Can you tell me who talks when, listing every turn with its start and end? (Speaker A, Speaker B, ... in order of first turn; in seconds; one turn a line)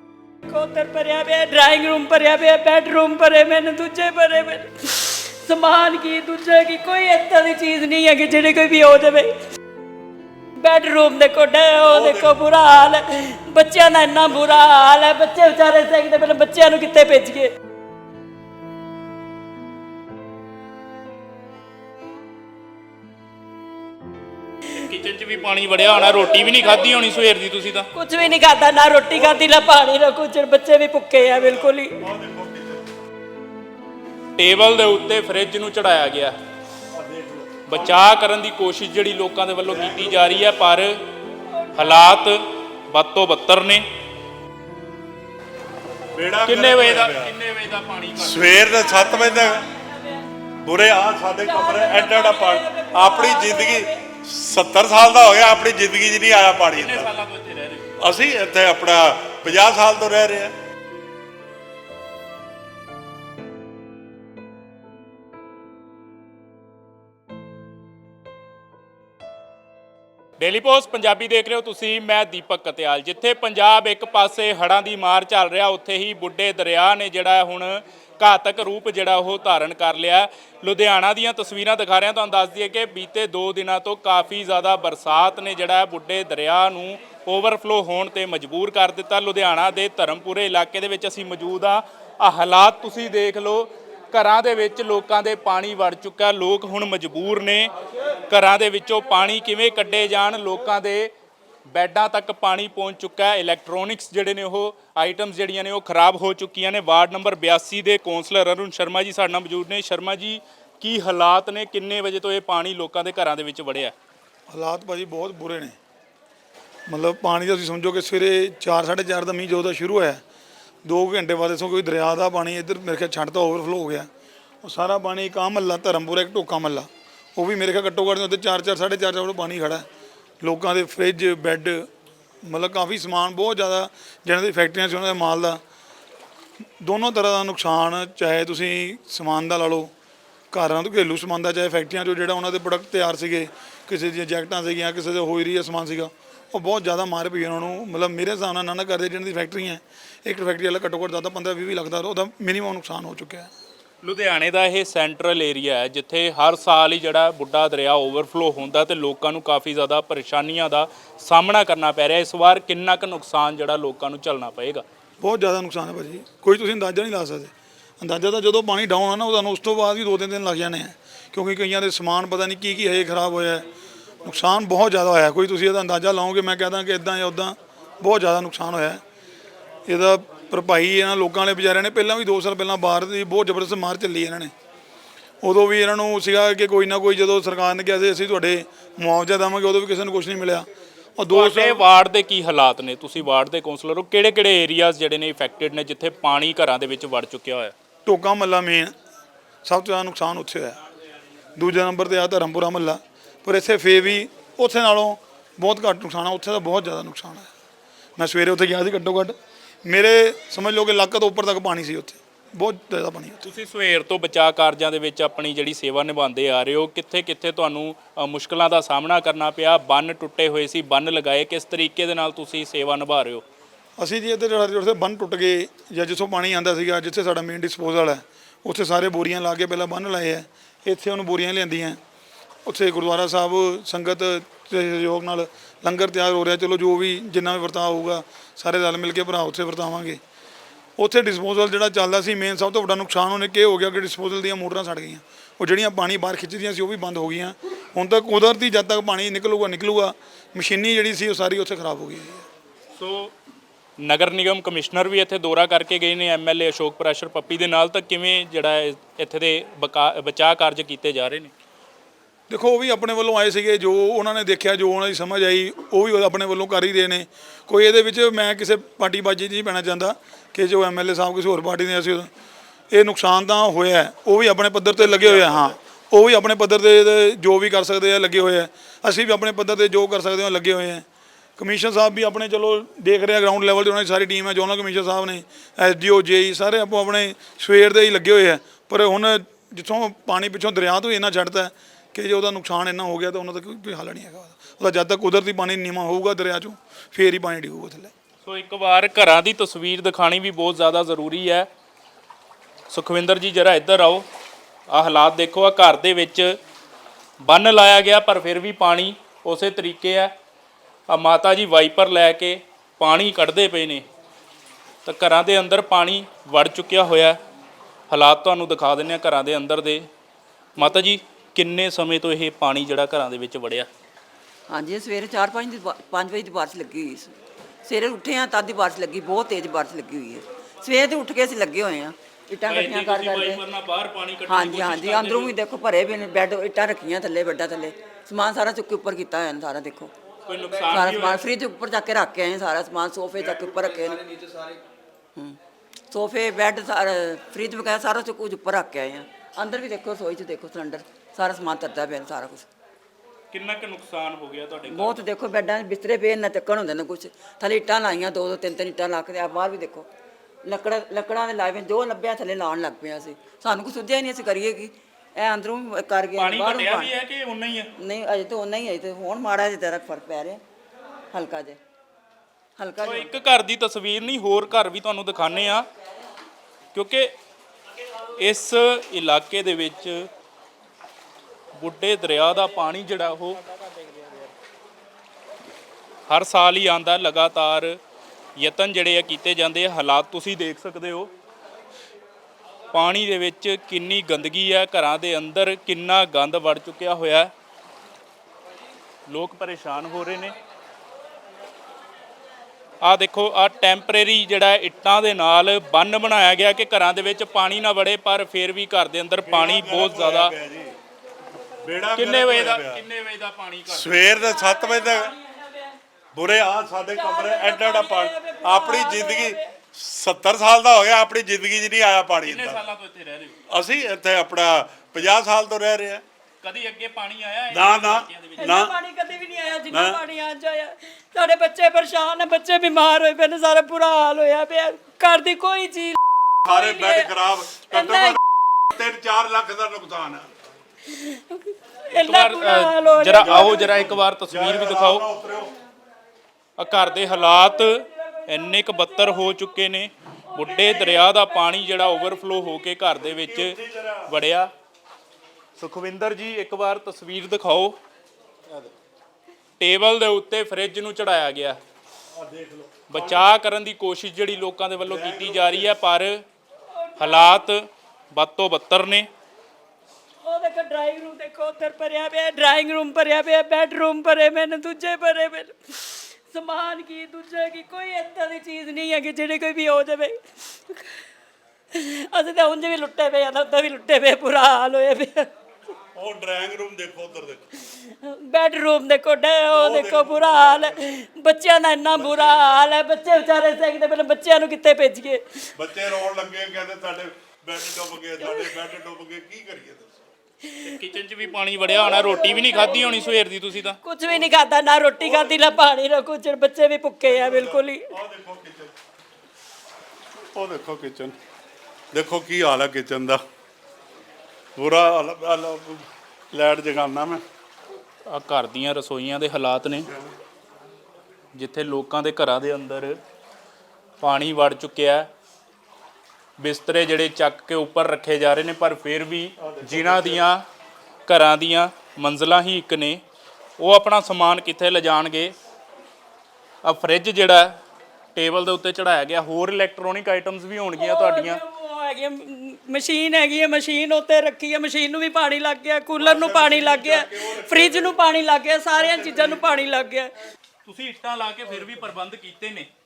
Speaker A: 0.5-9.3
Speaker A: 10.6-17.5
Speaker B: 11.8-12.3
Speaker C: 24.7-27.9
Speaker A: 26.0-27.0
Speaker A: 27.9-32.0
Speaker B: 31.2-32.9
Speaker C: 34.4-36.4
Speaker B: 36.9-37.9
Speaker C: 37.7-40.9
Speaker B: 39.6-40.4
Speaker A: 41.5-42.0
Speaker C: 41.8-42.4
Speaker C: 42.9-43.8
Speaker B: 46.1-47.3
Speaker C: 46.4-48.5
Speaker B: 48.2-49.6
Speaker A: 48.6-50.2
Speaker B: 50.6-57.1
Speaker A: 51.4-54.0
Speaker C: 56.7-57.9
Speaker B: 58.0-60.5
Speaker C: 70.4-97.7
Speaker C: 98.3-101.1
Speaker C: 101.7-113.9
Speaker D: 114.5-115.8
Speaker D: 116.9-120.2
Speaker D: 120.8-124.1
Speaker D: 124.6-129.8
Speaker D: 130.4-131.9
Speaker D: 132.4-135.6
Speaker D: 136.8-139.9
Speaker D: 140.5-153.5
Speaker C: 154.0-164.8
Speaker D: 165.2-173.7
Speaker D: 174.2-179.0
Speaker D: 179.9-184.5
Speaker D: 185.4-191.8
Speaker C: 191.3-197.7
Speaker D: 198.1-198.9
Speaker D: 199.6-200.8
Speaker D: 201.6-207.5
Speaker D: 208.2-213.4
Speaker C: 213.4-223.4
Speaker D: 224.0-232.0
Speaker D: 232.7-240.2
Speaker D: 241.0-252.4
Speaker C: 252.9-253.3
Speaker C: 254.0-261.5
Speaker D: 262.5-272.3
Speaker D: 272.9-281.0
Speaker B: 275.0-275.7
Speaker D: 281.6-298.1
Speaker C: 298.4-301.7
Speaker C: 302.9-304.2
Speaker C: 304.9-306.6
Speaker C: 307.4-310.3
Speaker C: 311.1-314.0
Speaker C: 315.0-317.4
Speaker C: 318.1-320.1
Speaker C: 320.8-323.9
Speaker E: 324.7-333.6
Speaker C: 332.6-335.5
Speaker E: 334.4-340.1
Speaker C: 340.4-341.4
Speaker E: 340.9-344.7
Speaker E: 346.1-352.7
Speaker C: 353.5-355.2
Speaker E: 354.9-360.1
Speaker E: 360.6-367.1
Speaker C: 366.3-367.9
Speaker E: 368.0-370.6
Speaker E: 371.3-371.8
Speaker E: 372.8-373.3
Speaker C: 373.0-375.9
Speaker C: 376.9-377.3
Speaker C: 378.4-380.3
Speaker C: 381.8-384.4
Speaker C: 386.3-388.0
Speaker C: 388.6-391.3
Speaker C: 392.9-397.5
Speaker C: 399.3-400.5
Speaker C: 403.0-410.5
Speaker B: 409.4-410.9
Speaker B: 411.8-413.0
Speaker C: 412.1-414.4
Speaker B: 413.9-415.3
Speaker A: 414.5-416.0
Speaker B: 416.3-422.8
Speaker A: 417.1-419.7
Speaker C: 422.4-423.6
Speaker B: 423.7-426.2
Speaker C: 426.6-428.7
Speaker B: 427.7-428.9
Speaker A: 428.6-437.3
Speaker B: 429.9-430.2
Speaker B: 436.6-440.5
Speaker A: 437.8-438.4
Speaker A: 441.1-444.0
Speaker C: 442.1-445.3
Speaker B: 443.4-445.7
Speaker C: 446.8-454.7
Speaker A: 450.8-451.3
Speaker B: 453.2-454.3
Speaker C: 455.8-458.0
Speaker C: 459.8-461.8
Speaker B: 462.3-463.5
Speaker C: 463.1-466.4
Speaker B: 465.0-465.9
Speaker A: 466.9-467.7
Speaker C: 467.2-469.3
Speaker A: 470.4-481.1
Speaker A: 481.9-485.5
Speaker B: 486.1-487.6
Speaker A: 488.0-495.4
Speaker B: 489.7-490.9
Speaker B: 492.1-492.7
Speaker B: 495.8-500.2
Speaker A: 498.4-498.7
Speaker A: 500.6-500.9
Speaker C: 500.8-504.0
Speaker A: 501.8-503.3
Speaker A: 504.0-508.1
Speaker B: 505.2-505.7
Speaker B: 507.3-508.9
Speaker B: 510.5-511.4
Speaker B: 512.1-513.4
Speaker B: 514.8-517.4
Speaker C: 518.3-520.1
Speaker C: 521.5-523.2
Speaker C: 524.2-525.3
Speaker C: 526.6-530.6
Speaker B: 529.6-530.4
Speaker C: 531.3-533.2
Speaker C: 533.8-535.5
Speaker C: 536.8-537.8
Speaker C: 538.3-541.6
Speaker A: 541.0-550.3
Speaker B: 546.2-548.1
Speaker B: 549.0-549.6
Speaker C: 550.8-552.9